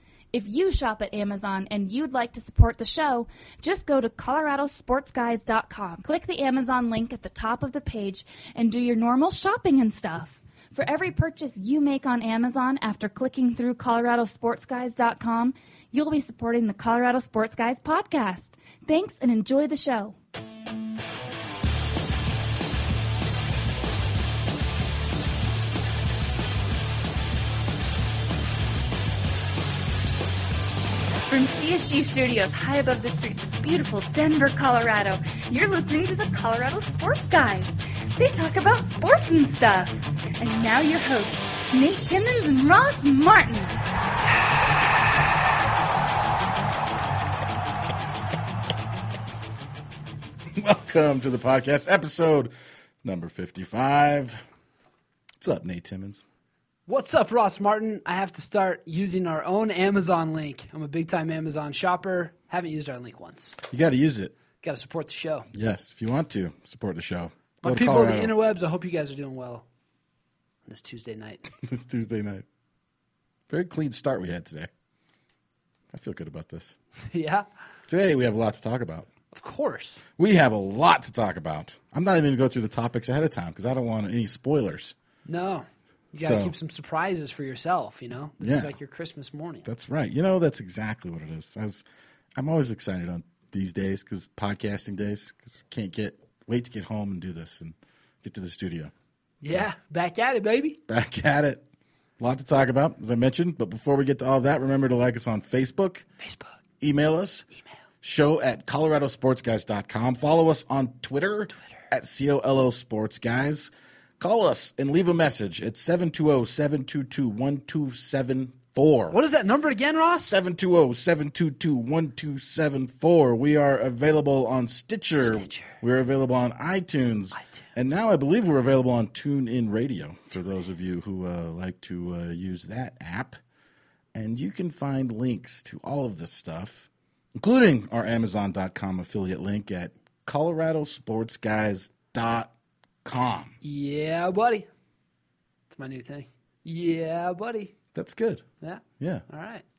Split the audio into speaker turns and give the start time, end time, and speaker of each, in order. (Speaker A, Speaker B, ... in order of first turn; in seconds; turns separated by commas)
Speaker A: 0.3-20.2, Speaker A: 31.3-43.8, Speaker B: 50.5-52.5, Speaker B: 53.0-54.4, Speaker B: 55.4-56.2, Speaker C: 56.9-63.6, Speaker B: 63.6-64.3, Speaker C: 64.6-65.5, Speaker B: 65.5-68.3, Speaker C: 67.6-69.6, Speaker C: 70.7-71.5, Speaker B: 71.6-72.4, Speaker B: 73.5-74.7, Speaker B: 75.9-76.8, Speaker C: 77.1-77.5, Speaker B: 77.9-79.1, Speaker C: 79.3-80.0, Speaker B: 80.2-84.9, Speaker C: 85.2-89.7, Speaker B: 86.2-86.5, Speaker B: 88.4-88.7, Speaker B: 89.7-91.8, Speaker B: 92.3-98.9, Speaker C: 99.4-100.8, Speaker B: 100.9-101.6, Speaker B: 102.2-106.0, Speaker C: 106.2-106.5, Speaker B: 106.8-107.5, Speaker B: 108.0-119.2, Speaker C: 119.1-120.3, Speaker B: 120.0-133.4, Speaker C: 125.2-125.8, Speaker C: 127.3-127.7, Speaker B: 134.1-142.5, Speaker B: 143.0-143.5, Speaker C: 143.6-144.7, Speaker C: 145.7-147.8, Speaker B: 147.9-148.4, Speaker C: 148.6-149.6, Speaker B: 149.0-149.2